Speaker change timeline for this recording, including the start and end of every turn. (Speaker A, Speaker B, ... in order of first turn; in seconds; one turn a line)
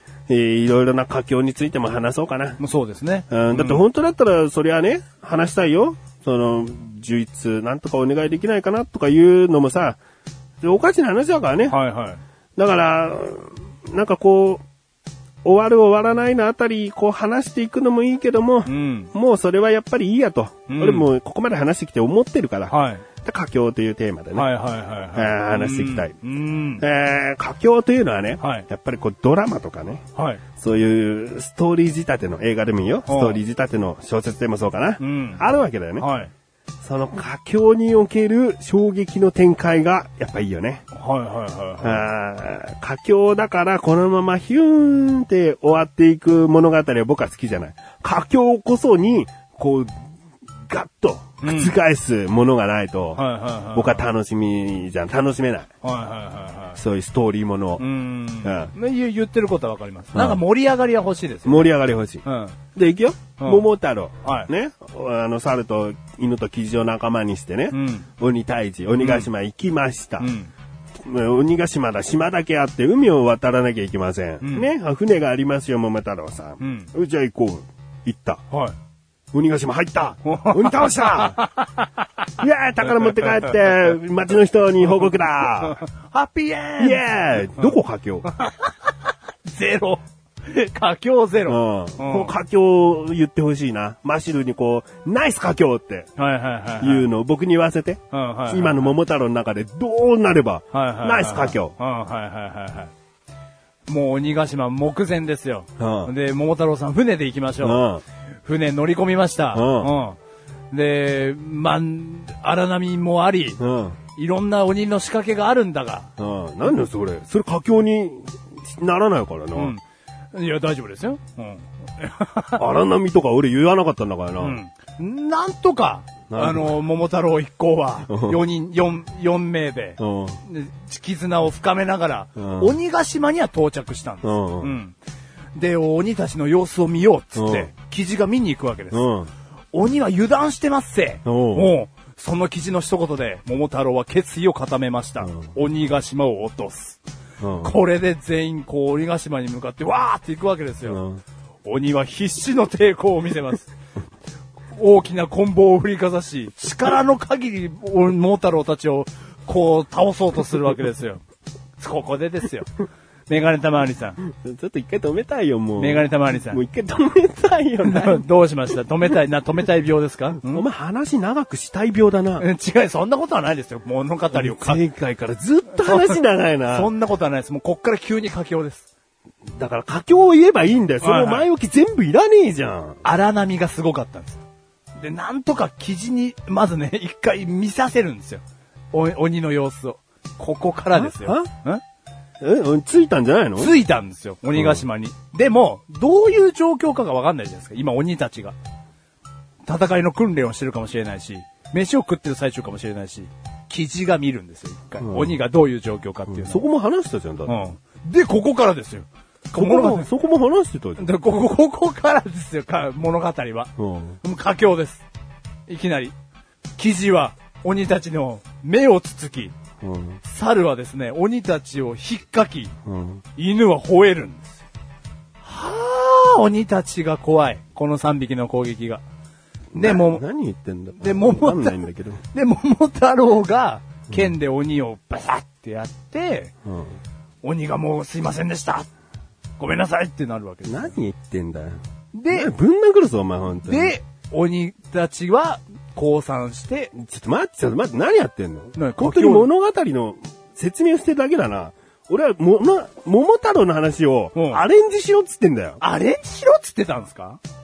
Speaker A: 0.3-2.6
Speaker B: 2.6-3.8
Speaker A: 3.3-10.0
Speaker A: 10.6-11.8
Speaker B: 11.7-12.2
Speaker A: 12.6-14.6
Speaker A: 15.4-24.5
Speaker B: 18.6-19.1
Speaker B: 20.7-21.1
Speaker B: 22.7-23.0
Speaker B: 24.3-26.8
Speaker A: 25.1-26.1
Speaker A: 26.8-30.0
Speaker B: 28.4-28.7
Speaker B: 30.1-30.4
Speaker A: 30.6-36.1
Speaker B: 33.1-33.4
Speaker B: 35.0-35.4
Speaker B: 36.0-36.3
Speaker A: 36.8-40.8
Speaker B: 40.9-42.0
Speaker A: 41.8-49.9
Speaker A: 50.7-53.2
Speaker B: 51.4-51.7
Speaker B: 53.1-54.0
Speaker A: 53.7-55.7
Speaker B: 55.8-56.8
Speaker A: 56.8-57.9
Speaker B: 57.8-61.7
Speaker A: 58.4-58.7
Speaker A: 60.1-60.4
Speaker A: 61.4-62.2
Speaker B: 62.2-62.6
Speaker A: 62.8-70.3
Speaker B: 63.4-63.6
Speaker B: 64.2-64.5
Speaker B: 67.7-68.1
Speaker B: 69.0-69.3
Speaker B: 70.2-70.5
Speaker A: 71.0-78.4
Speaker B: 74.4-74.7
Speaker B: 76.6-76.9
Speaker B: 78.5-78.8
Speaker A: 79.3-81.4
Speaker B: 80.2-81.9
Speaker A: 82.4-85.8
Speaker B: 83.0-83.5
Speaker B: 85.6-87.0
Speaker A: 86.8-88.3
Speaker B: 88.3-88.9
Speaker B: 89.5-92.3
Speaker A: 91.5-96.1
Speaker B: 96.2-97.1
Speaker A: 96.8-101.7
Speaker B: 98.1-98.9
Speaker B: 100.7-102.9
Speaker B: 103.9-107.8
Speaker A: 105.8-106.1
Speaker A: 107.6-108.0
Speaker B: 108.4-110.2
Speaker A: 109.5-109.9
Speaker B: 110.7-113.6
Speaker A: 113.6-114.0
Speaker B: 114.1-116.1
Speaker A: 116.2-119.8
Speaker B: 119.5-119.8
Speaker B: 120.3-122.6
Speaker A: 122.5-124.6
Speaker B: 124.4-134.9
Speaker A: 126.3-126.8
Speaker A: 128.1-128.4
Speaker A: 130.0-130.4
Speaker A: 132.4-132.8
Speaker A: 134.2-134.7
Speaker B: 135.6-139.0
Speaker A: 137.3-137.7
Speaker A: 138.9-139.3
Speaker B: 139.7-147.0
Speaker A: 141.2-141.7
Speaker A: 147.4-147.8
Speaker B: 147.6-151.0
Speaker A: 150.8-151.2
Speaker B: 151.6-153.7
Speaker B: 154.7-161.2
Speaker B: 161.8-162.7
Speaker B: 163.3-164.2
Speaker A: 164.2-168.2
Speaker B: 165.8-166.6
Speaker B: 167.8-170.6
Speaker A: 170.4-172.4
Speaker B: 172.4-174.8
Speaker A: 174.3-176.9
Speaker B: 175.8-176.2
Speaker B: 176.7-178.8
Speaker A: 179.6-183.0
Speaker B: 181.0-181.5
Speaker B: 183.0-184.4
Speaker B: 185.0-191.8
Speaker A: 190.9-191.5
Speaker A: 192.4-193.7
Speaker B: 193.6-198.5
Speaker A: 194.5-194.8
Speaker B: 199.7-206.6
Speaker A: 205.0-205.4
Speaker A: 206.3-207.6
Speaker B: 207.4-210.1
Speaker A: 209.5-211.2
Speaker B: 211.0-213.7
Speaker A: 213.8-214.2
Speaker B: 214.2-215.0
Speaker B: 215.7-216.1
Speaker B: 216.8-219.5
Speaker A: 219.8-220.2
Speaker B: 220.2-222.7
Speaker A: 222.8-223.2
Speaker B: 223.3-224.6
Speaker B: 225.4-229.0
Speaker A: 229.7-232.2
Speaker B: 229.7-230.2
Speaker B: 231.0-236.5
Speaker A: 234.1-234.3
Speaker A: 236.7-237.0
Speaker B: 237.4-238.9
Speaker B: 239.6-240.9
Speaker A: 240.7-241.8
Speaker B: 242.1-242.5
Speaker A: 242.3-244.0
Speaker B: 243.6-246.9
Speaker A: 246.9-255.8
Speaker B: 248.8-249.5
Speaker B: 254.3-254.6
Speaker B: 255.8-257.4